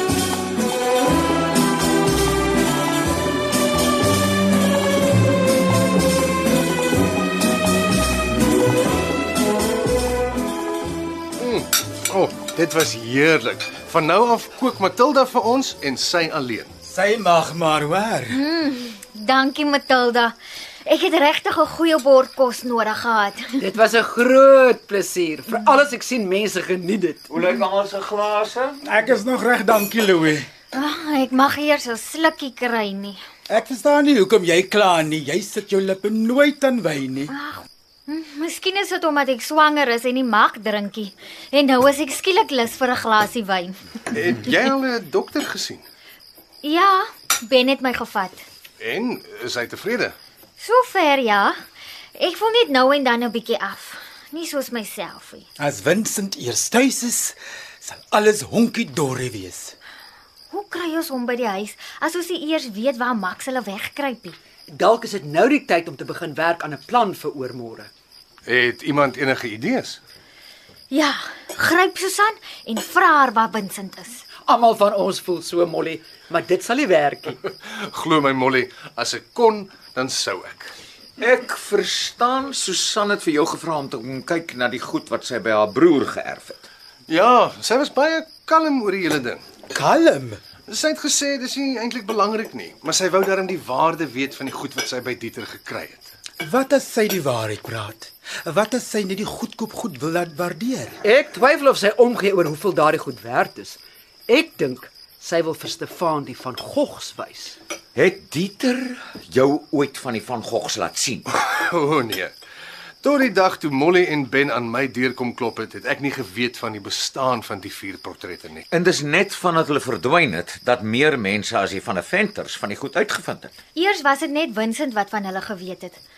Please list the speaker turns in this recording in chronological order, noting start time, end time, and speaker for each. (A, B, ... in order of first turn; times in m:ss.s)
0:11.4-0:16.7 A
0:16.8-0:18.4 B
0:18.3-0:20.3 C
0:20.8-0:23.6 C
0:23.6-0:27.3 D
0:27.3-0:28.8 E
0:28.8-0:30.5 B
0:30.7-0:33.2 C
0:33.5-0:37.3 B
0:37.3-0:43.7 C
0:44.1-0:45.8 A
0:46.6-0:48.4 C
0:48.8-0:50.2 A
0:50.6-0:51.5 C
0:52.2-0:55.5 C
0:55.6-0:59.8 B
1:00.5-1:04.4 C
1:04.7-1:07.9 D
1:08.5-1:10.0 A
1:10.9-1:14.2 C
1:14.5-1:17.4 D
1:17.6-1:20.7 A
1:21.2-1:26.7 E
1:27.1-1:29.4 A
1:29.7-1:30.4 B
1:30.7-1:36.1 A
1:36.4-1:41.0 B
1:41.0-1:47.6 D
1:47.9-1:51.2 E
1:51.3-1:52.3 A
1:53.0-1:58.7 A
1:58.7-2:03.6 E
2:03.8-2:06.0 C